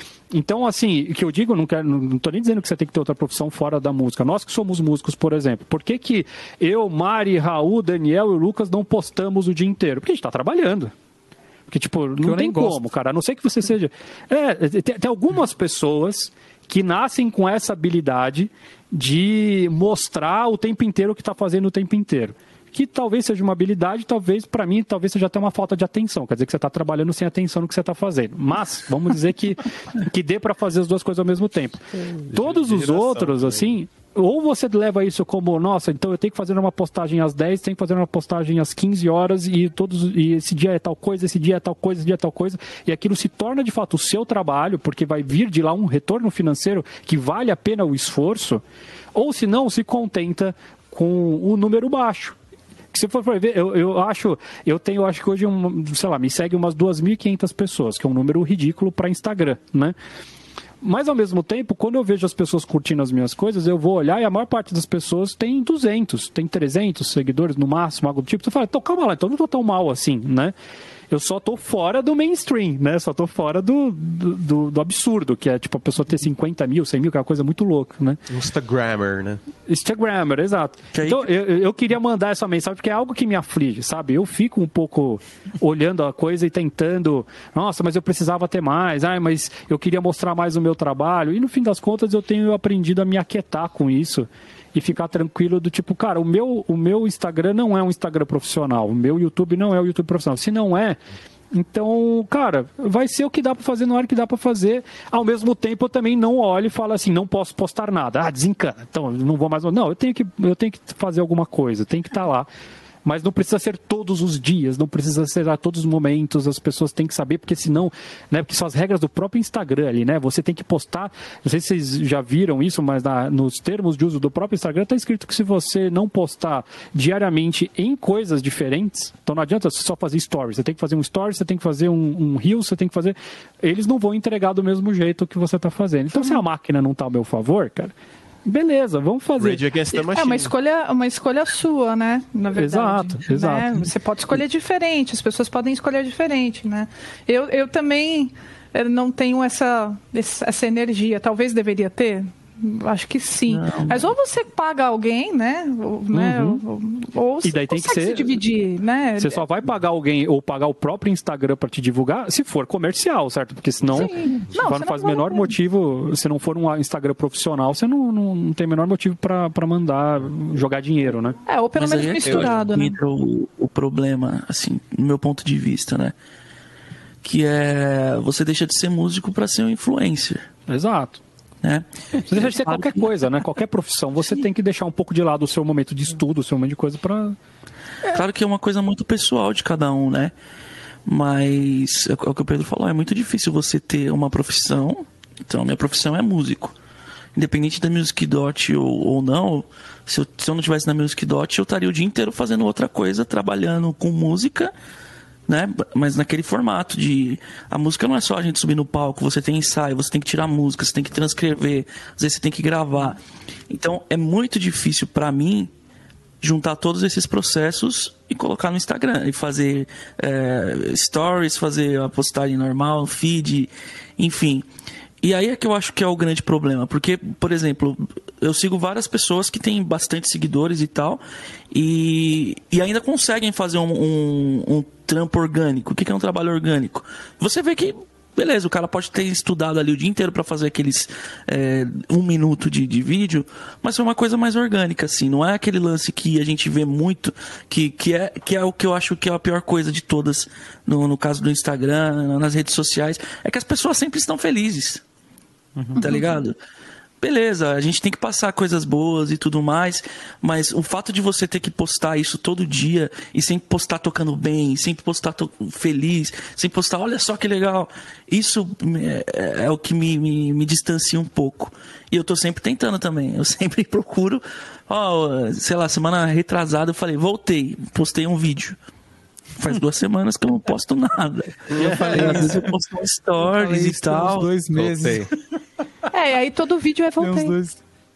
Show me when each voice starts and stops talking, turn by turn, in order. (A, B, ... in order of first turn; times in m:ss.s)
0:00.3-0:10.9 A
0:11.7-0:48.6 A
0:12.2-0:12.8 B
0:32.1-0:33.7 C
0:49.1-0:52.4 A
0:52.9-0:59.9 A
1:00.8-1:10.5 A
1:11.1-1:18.2 A
1:18.3-1:19.4 C
1:19.7-1:41.0 A
1:20.9-1:21.3 D
1:41.5-1:52.5 A
1:53.0-2:17.9 A
2:18.4-2:19.7 A
2:19.4-2:20.5 C
2:20.1-2:39.4 E
2:22.5-2:23.9 A
2:33.5-2:34.1 D
2:36.1-2:36.6 A
2:37.4-2:38.4 A
2:39.2-2:51.4 A
2:43.9-2:45.5 E
2:51.5-2:53.0 E
2:51.8-2:56.1 D
2:52.2-2:52.6 C
2:57.2-3:00.5 D
3:00.7-3:01.2 A
3:01.6-3:03.1 D
3:02.3-3:07.4 A
3:08.1-3:10.3 D
3:11.0-3:16.7 D
3:17.3-3:24.7 D
3:25.5-3:35.7 D
3:36.4-3:44.6 D
3:45.2-4:15.0 D
4:15.8-4:16.1 B
4:16.0-4:16.6 D
4:17.2-4:38.8 D
4:39.6-4:44.5 D
4:41.7-4:42.5 C
4:41.7-4:42.7 B
4:43.4-4:45.3 B
4:44.7-4:45.3 C
4:46.1-4:47.6 E
4:47.2-4:47.8 B